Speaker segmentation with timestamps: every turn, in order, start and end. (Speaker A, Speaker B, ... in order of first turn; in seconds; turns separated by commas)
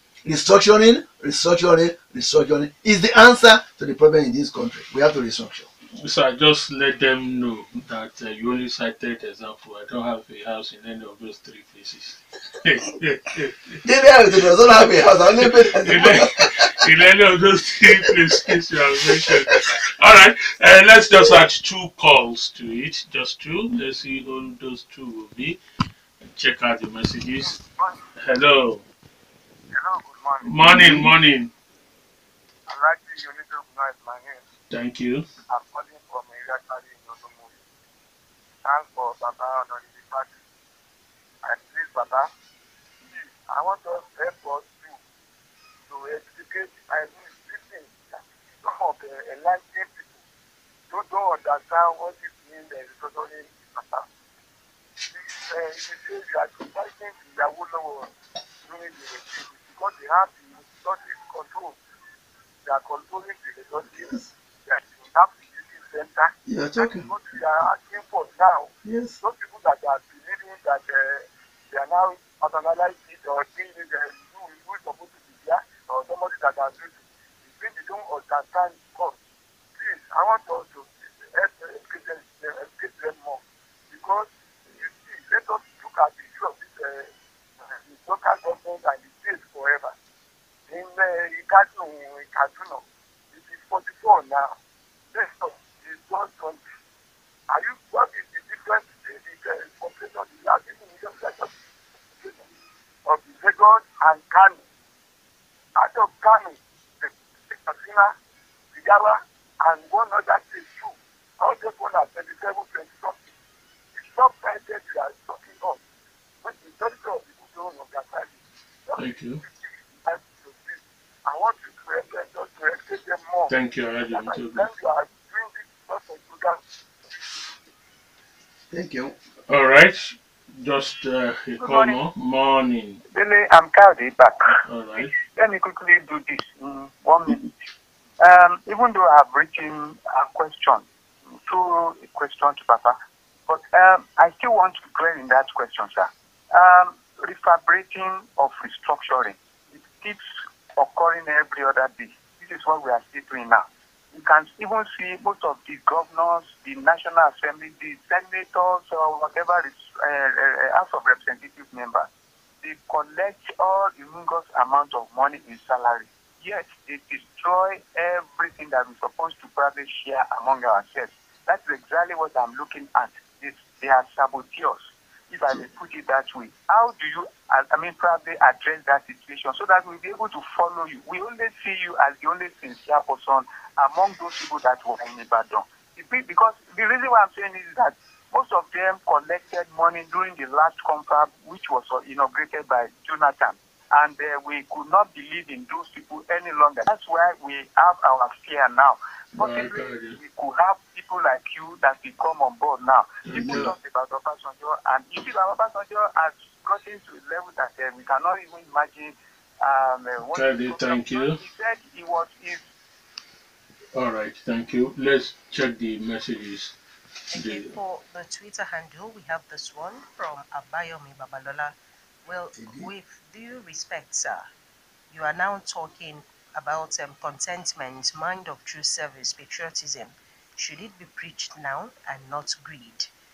Speaker A: 0.2-5.7, Speaker B: 6.0-13.8, Speaker A: 13.8-16.7, Speaker B: 15.4-25.6, Speaker A: 19.2-19.5, Speaker A: 21.1-21.4, Speaker B: 26.2-27.6, Speaker B: 28.2-28.8, Speaker C: 29.7-30.9, Speaker B: 30.4-31.5, Speaker A: 30.6-31.1, Speaker C: 32.7-34.4, Speaker B: 34.7-35.2, Speaker C: 35.5-37.6, Speaker C: 38.6-40.4, Speaker C: 41.4-42.3, Speaker C: 43.0-45.0, Speaker C: 45.9-50.2, Speaker C: 50.9-54.1, Speaker C: 55.1-58.1, Speaker C: 58.6-61.8, Speaker C: 62.6-64.1, Speaker C: 64.7-79.2, Speaker A: 66.5-67.1, Speaker A: 68.8-69.2, Speaker C: 79.8-89.9, Speaker C: 90.7-94.5, Speaker C: 95.1-96.6, Speaker C: 97.5-101.6, Speaker C: 102.2-102.5, Speaker C: 103.0-104.6, Speaker C: 105.8-108.1, Speaker C: 108.7-113.3, Speaker C: 113.9-115.8, Speaker C: 116.4-123.5, Speaker B: 119.0-119.4, Speaker B: 123.5-124.7, Speaker C: 124.1-126.6, Speaker C: 127.1-127.4, Speaker A: 128.7-129.1, Speaker B: 129.5-133.0, Speaker C: 131.6-132.0, Speaker C: 133.1-134.4, Speaker B: 134.6-135.1, Speaker C: 135.0-137.5, Speaker C: 138.2-140.8, Speaker C: 141.5-142.9, Speaker C: 143.5-150.2, Speaker C: 150.8-162.1, Speaker C: 162.6-212.7, Speaker B: 199.3-200.2, Speaker B: 203.2-203.7, Speaker A: 203.3-203.7, Speaker B: 210.2-211.4, Speaker B: 213.9-216.7, Speaker D: 217.3-224.4, Speaker B: 217.3-217.7, Speaker A: 222.6-222.9, Speaker D: 225.1-233.1